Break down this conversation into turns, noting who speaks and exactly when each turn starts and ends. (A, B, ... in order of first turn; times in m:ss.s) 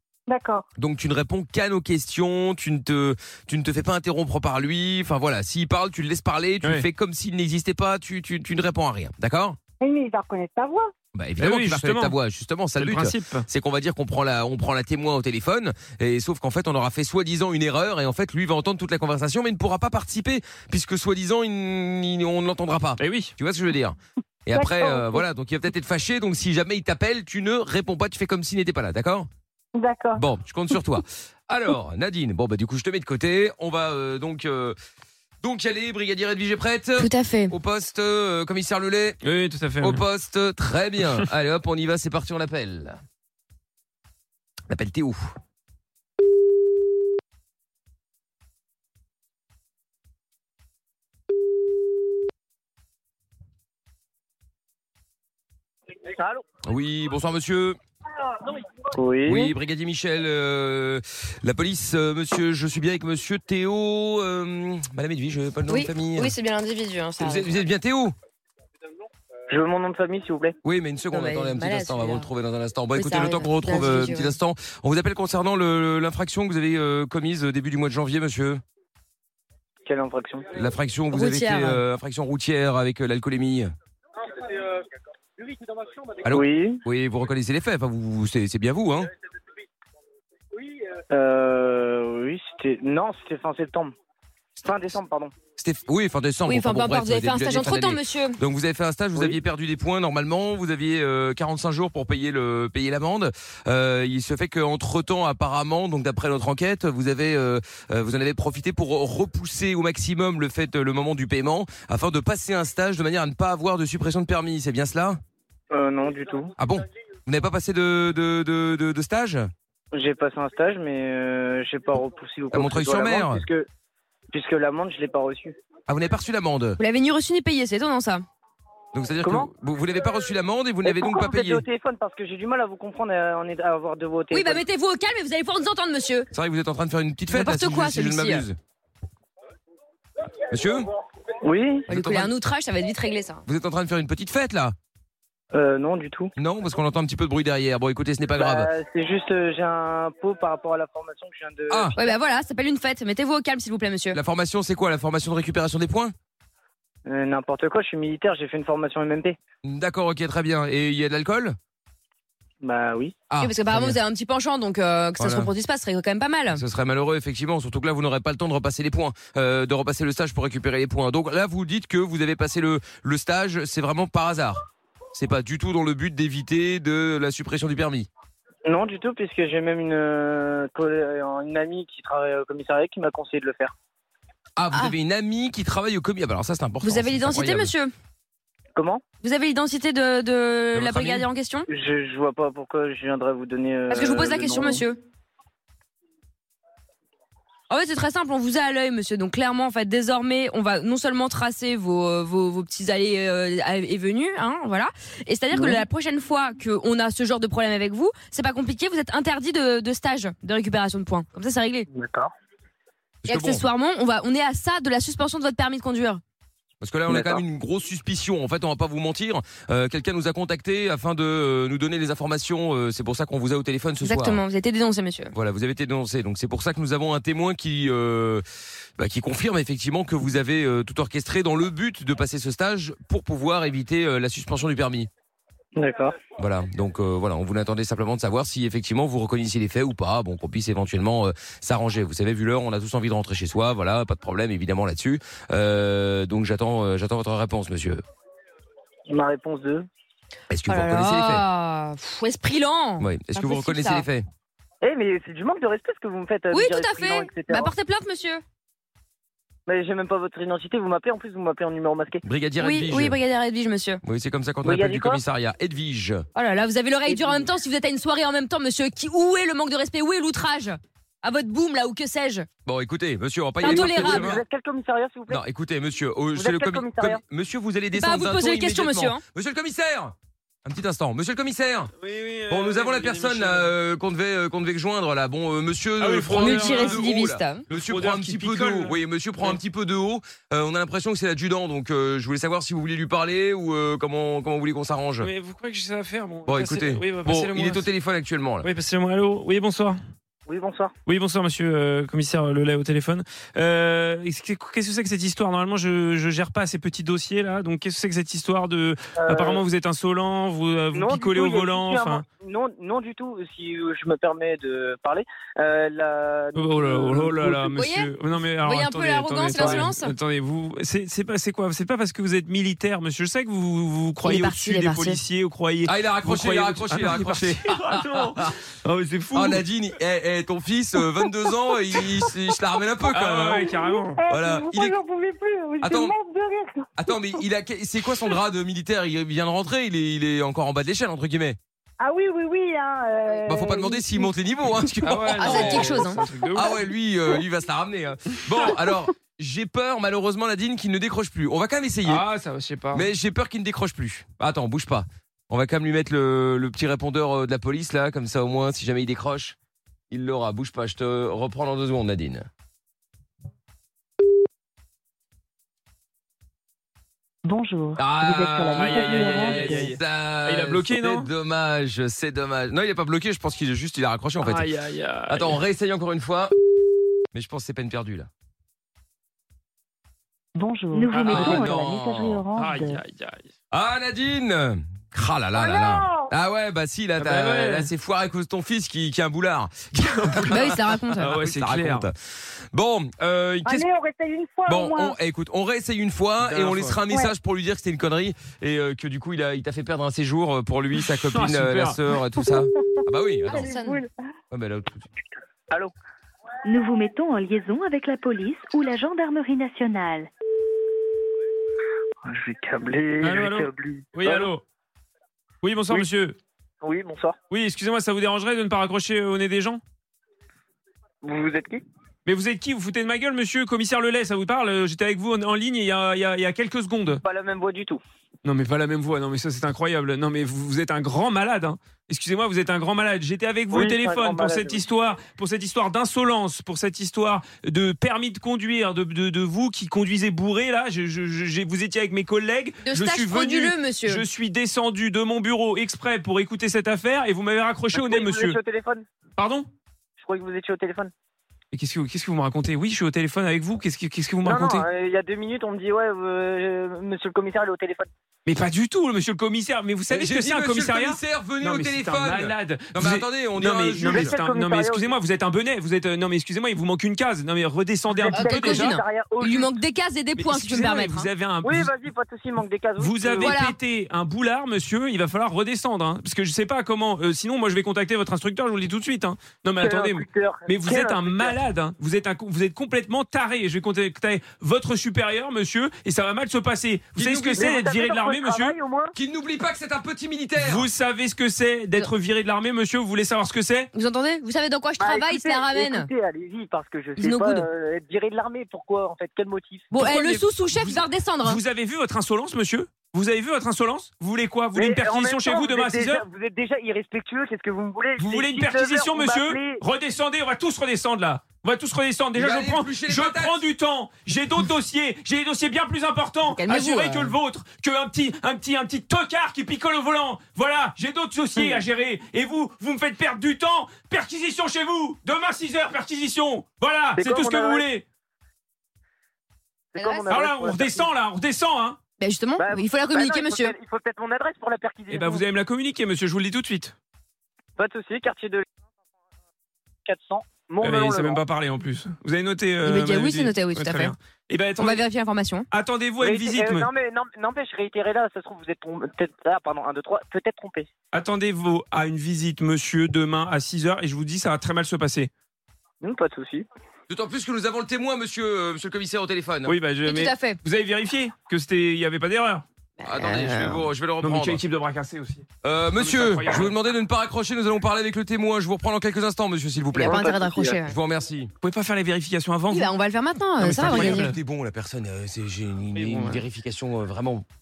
0:00.3-0:00.6 A
0:00.8-0:09.6 B
0:09.8-0:10.9 A
0:11.1-0:29.3 B
0:11.4-0:12.2 C
0:12.8-0:13.4 C
0:23.0-0:23.3 C
0:24.5-0:25.2 A
0:29.7-0:30.2 A
0:30.2-0:34.8 B
0:35.4-0:39.2 B
0:37.0-0:37.5 D
0:39.2-0:40.0 C
0:39.8-0:43.0 B
0:44.7-0:45.3 B
0:56.0-0:56.4 E
0:56.6-0:57.8 B
0:58.9-0:59.5 E
0:59.2-1:06.3 B
1:05.7-1:07.5 D
1:07.2-1:08.1 B
1:09.5-1:10.6 E
1:10.6-1:18.6 B
1:11.1-1:12.3 D
1:12.9-1:14.3 D
1:19.8-1:20.5 E
1:20.5-1:23.7 B
1:21.1-1:21.8 D
1:26.2-1:29.1 B
1:26.3-1:26.8 E
1:31.1-1:33.9 E
1:34.6-1:35.3 E
1:35.6-1:55.2 B
1:36.5-1:38.4 D
1:55.7-1:56.5 E
1:56.6-1:59.5 B
1:59.9-2:03.7 E
2:02.5-2:03.4 B
2:04.3-2:05.6 E
2:05.9-2:06.8 B
2:06.8-2:08.2 D
2:08.9-2:11.6 B
2:09.2-2:09.5 E
2:10.8-2:14.6 E
2:14.3-2:16.3 D
2:16.3-2:18.6 B
2:17.3-2:18.4 D
2:20.5-2:20.8 B
2:21.4-2:21.9 E
2:21.9-2:23.4 D
2:21.9-2:22.3 B
2:23.4-2:24.7 B
2:25.5-2:26.3 E
2:26.4-2:28.7 B
2:28.3-2:32.0 E
2:31.7-2:31.9 B
2:31.9-2:34.2 D
2:34.1-2:36.1 B
2:37.0-2:39.4 E
2:39.6-2:41.6 B
2:42.6-2:43.1 E
2:43.3-2:44.0 B
2:43.4-2:46.6 D
2:45.2-2:45.5 B
2:46.5-2:54.6 B
2:55.1-2:58.1 B
2:58.6-3:03.7 E
3:04.6-3:07.7 B
3:06.8-3:07.9 D
3:08.8-3:09.0 E
3:09.2-3:11.7 D
3:10.7-3:11.3 B
3:11.7-3:14.8 E
3:13.9-3:15.0 D
3:17.7-3:31.9 D
3:25.5-3:25.8 E
3:31.9-3:32.3 E
3:33.2-3:33.6 B
3:33.3-3:36.2 D
3:36.8-3:44.4 B
3:37.1-3:37.4 E
3:44.0-3:45.3 D
3:45.3-3:48.4 B
3:49.0-3:55.1 B
3:55.8-3:56.2 E
3:56.4-4:08.0 B
4:09.1-4:09.8 E
4:10.5-4:11.4 B
4:10.7-4:14.0 D
4:13.0-4:14.3 B
4:14.8-4:17.7 E
4:16.5-4:18.4 D
4:19.7-4:22.2 E
4:22.2-4:23.2 B
4:22.6-4:24.0 D
4:24.0-4:26.2 B
4:24.6-4:25.2 E
4:26.3-4:32.5 D
4:27.1-4:27.5 E
4:32.6-4:34.4 B
4:33.6-4:34.4 D
4:33.6-4:35.4 E
4:35.3-4:41.9 B
4:36.4-4:37.2 E
4:37.9-4:39.2 D
4:42.0-4:43.7 C
4:42.5-4:55.3 B
4:46.0-4:47.0 C
4:46.4-4:47.6 D
4:47.7-4:49.6 C
4:55.2-4:57.9 C
4:56.4-4:58.7 B
4:58.6-5:00.0 C
5:00.5-5:00.9 E
5:01.1-5:12.2 C
5:09.2-5:09.6 E
5:10.9-5:17.7 E
5:16.6-5:29.6 C
5:17.7-5:20.1 D
5:19.5-5:19.9 E
5:24.2-5:25.2 D
5:25.8-5:28.5 B
5:29.3-5:33.7 B
5:33.1-5:34.2 C
5:33.6-5:37.4 A
5:34.3-5:34.9 B
5:35.8-5:36.1 B
5:37.0-5:41.6 B
5:42.0-5:44.3 A
5:43.4-5:52.2 B
5:45.0-5:46.8 C
5:45.3-5:46.2 D
5:52.0-5:53.1 C
5:52.9-5:59.6 B
6:00.1-6:02.5 B
6:07.4-6:09.9 F
6:08.0-6:14.7 B
6:08.7-6:11.3 C
6:14.4-6:15.6 C
6:15.3-6:16.5 B
6:17.3-6:18.3 B
6:20.5-6:23.0 F
6:21.1-6:21.8 C
6:21.3-6:22.4 B
6:22.5-6:23.5 C
6:23.7-6:32.1 B
6:25.6-6:26.3 A
6:27.2-6:27.9 C
6:30.1-6:32.1 C
6:30.5-6:31.4 D
6:32.7-6:33.8 B
6:33.6-6:35.1 A
6:34.7-6:43.7 B
6:36.4-6:37.0 C
6:41.0-6:42.0 C
6:43.5-6:44.0 D
6:43.5-6:44.1 A
6:44.5-6:45.1 B
6:46.6-6:50.3 F
6:52.2-6:54.5 E
6:53.2-6:54.6 C
6:55.6-6:56.4 C
6:56.8-6:57.4 E
6:57.5-6:59.8 C
7:01.2-7:01.8 E
7:02.2-7:07.2 C
7:07.2-7:08.0 E
7:08.4-7:28.6 C
7:13.7-7:14.8 E
7:22.8-7:24.2 D
7:27.9-7:29.0 E
7:29.4-7:29.7 C
7:30.2-7:31.1 E
7:31.7-7:34.8 C
7:34.4-7:38.1 E
7:38.4-7:48.9 C
7:40.1-7:44.3 B
7:44.0-7:45.1 E
7:48.1-7:49.8 E
7:48.3-7:51.3 D
7:50.4-7:51.9 C
7:51.6-7:53.6 E
7:53.0-8:08.7 C
7:53.4-7:53.8 D
7:59.8-8:01.6 E
8:07.1-8:07.8 B
8:07.5-8:09.1 E
8:09.1-8:10.9 B
8:10.6-8:13.9 C
8:13.9-8:16.1 D
8:15.0-8:19.9 E
8:17.2-8:17.7 D
8:19.9-8:21.6 D
8:19.9-8:26.2 C
8:24.7-8:29.8 E
8:28.2-8:48.0 C
8:32.3-8:33.6 B
8:36.4-8:37.4 D
8:41.6-8:41.8 E
8:47.1-8:47.9 E
8:49.9-8:51.1 E
8:50.0-8:50.3 D
8:50.3-8:52.0 C
8:52.2-8:53.7 D
8:52.6-8:55.4 E
8:55.1-8:56.9 C
8:57.8-8:58.6 E
9:00.0-9:01.4 E
9:00.8-9:05.0 C
9:02.8-9:04.2 D
9:04.8-9:05.7 D
9:05.7-9:06.9 C
9:06.2-9:10.9 E
9:11.1-9:15.3 C
9:16.0-9:16.7 E
9:17.1-9:19.7 B
9:19.6-9:22.6 C
9:20.0-9:20.6 D
9:23.0-9:23.9 D
9:23.0-9:24.6 B
9:24.2-9:26.8 C
9:25.6-9:30.2 B
9:30.0-9:30.9 D
9:30.0-9:30.8 E
9:30.8-9:31.5 B
9:31.6-9:32.9 C
9:32.7-9:34.3 D
9:33.6-9:34.4 C
9:33.8-9:37.4 B
9:35.9-9:36.3 C